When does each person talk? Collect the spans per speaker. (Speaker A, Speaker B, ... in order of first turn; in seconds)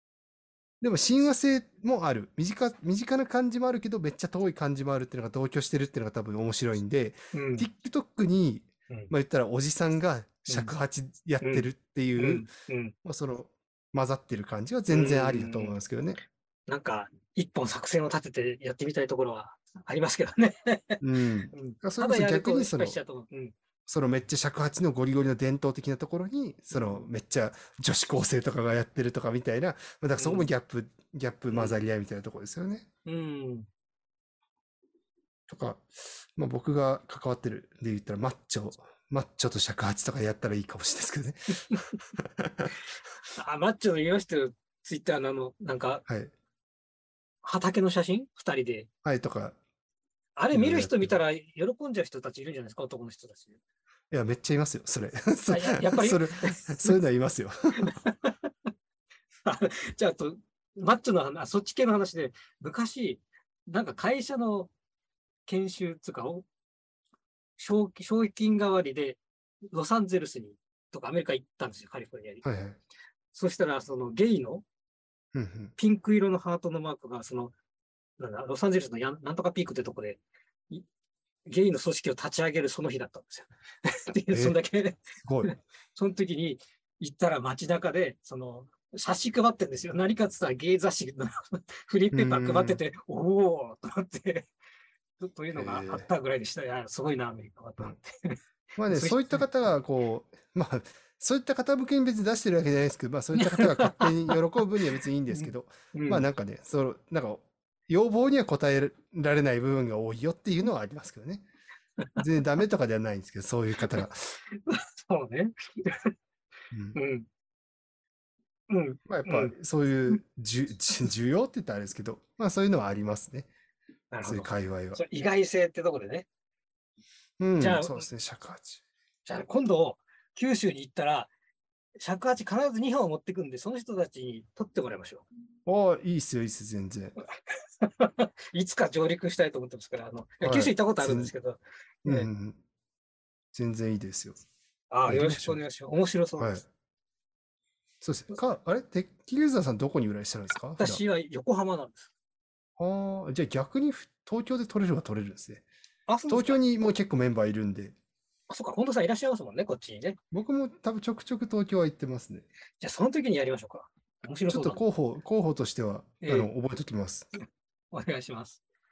Speaker A: 0.8-12.5, 13.1-16.2, 21.0-23.0, 23.9-32.9, 35.5-42.8, 46.1-46.3, 49.0-49.6, 50.5-51.2, 54.1-57.9, 72.5-72.8, 75.3-75.7, 84.3-84.6, 85.2-85.5, 92.1-92.8, 95.5-96.1, 98.8-111.5, 112.2-114.4, 116.7-117.0, 119.1-123.5, 124.2-125.0, 127.4-128.8, 135.7-137.2, 140.4-141.3, 142.1-142.6, 143.5-144.4, 145.1-145.6, 146.4-146.7, 148.0-151.0, 152.8-155.7, 156.3-158.0, 160.3-162.4, 164.5-167.3
Speaker B: 7.3-7.7, 10.5-10.7, 11.4-11.7, 12.2-12.9, 14.9-15.8, 16.7-21.0, 21.5-23.5, 26.7-27.1, 30.2-30.5, 31.5-31.8, 33.1-33.7, 43.4-46.0, 47.4-48.9, 50.4-53.6, 55.5-57.0, 57.8-58.5, 59.5-64.7, 65.5-66.5, 67.6-69.2, 69.7-72.5, 73.3-74.6, 75.8-77.5, 78.2-80.9, 81.5-94.5, 95.2-99.5, 103.3-106.3, 113.8-116.1, 117.0-117.3, 118.7-119.5, 124.1-126.3, 127.6-128.1, 129.2-131.3, 132.0-135.2, 137.5-142.3, 144.9-146.6, 150.8-152.1, 156.1-156.6, 158.5-160.2, 162.8-164.9, 166.2-166.5, 167.9-168.6